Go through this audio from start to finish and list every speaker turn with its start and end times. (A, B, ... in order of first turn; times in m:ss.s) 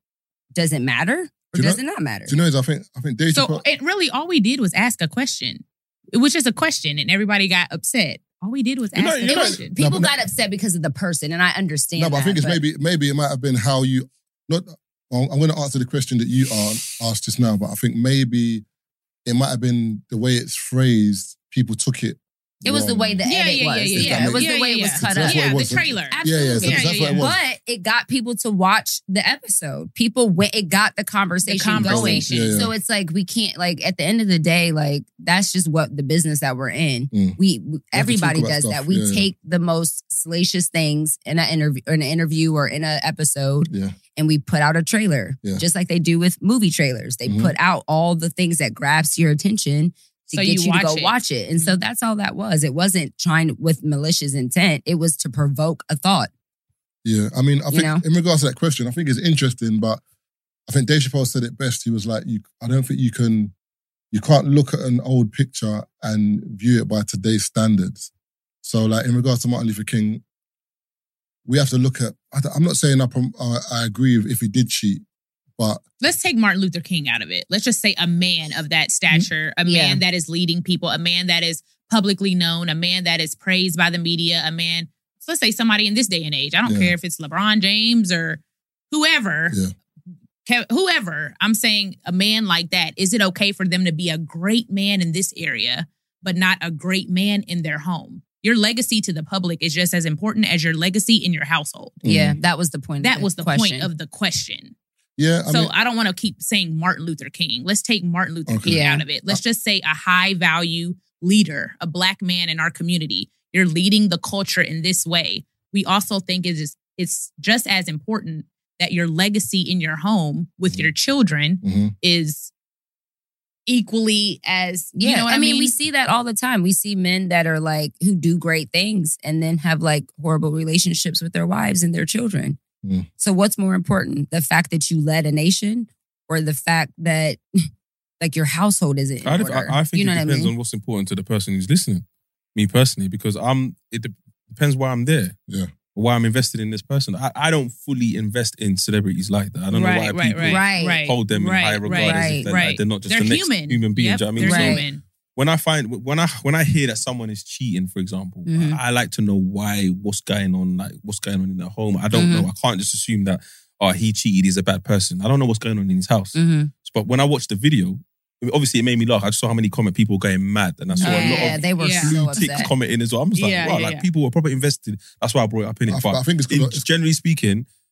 0:00.5-0:02.3 A
0:01.5-0:03.6 B
0:03.3-0:09.8 C
0:08.9-0:09.6 D
0:09.3-0:12.6 A
0:09.6-0:10.1 B
0:12.0-0:18.6 B
0:19.2-0:23.2 B
0:22.6-0:25.6 A
0:23.2-0:27.3 C
0:23.9-0:27.4 B
0:26.1-0:56.3 A
0:31.4-0:32.6 C
0:31.8-0:32.7 B
0:37.1-0:37.4 B
0:37.9-0:39.3 B
0:43.7-0:44.0 B
0:47.2-0:47.5 B
0:50.3-0:51.1 C
0:57.0-1:00.0 B
0:57.7-0:58.0 A
1:00.7-1:03.5 B
1:04.1-1:08.1 B
1:08.6-1:10.2 B
1:11.4-1:15.0 B
1:15.6-1:15.8 B
1:16.0-1:28.4 C
1:19.1-1:20.0 A
1:26.6-1:26.9 B
1:28.9-1:29.6 C
1:30.4-1:42.0 C
1:42.0-1:42.4 B
1:42.0-1:43.9 A
1:43.0-1:44.7 C
1:45.2-1:45.7 B
1:45.5-2:02.5 C
1:48.5-1:49.4 B
1:48.6-1:49.0 A
2:01.6-2:01.9 B
2:03.7-2:05.7 C
2:05.0-2:12.6 A
2:12.8-2:13.1 B
2:13.2-2:17.4 A
2:18.2-2:20.5 A
2:19.2-2:22.0 D
2:22.5-2:25.3 D
2:25.9-2:57.6 D
2:29.7-2:35.0 C
2:30.4-2:31.0 A
2:31.9-2:32.5 A
2:34.4-2:34.8 A
2:38.5-2:38.8 A
2:42.1-2:42.5 A
2:46.3-2:46.7 A
2:51.0-2:52.2 C
2:51.0-2:52.7 A
2:53.4-2:54.1 C
2:55.9-2:56.8 B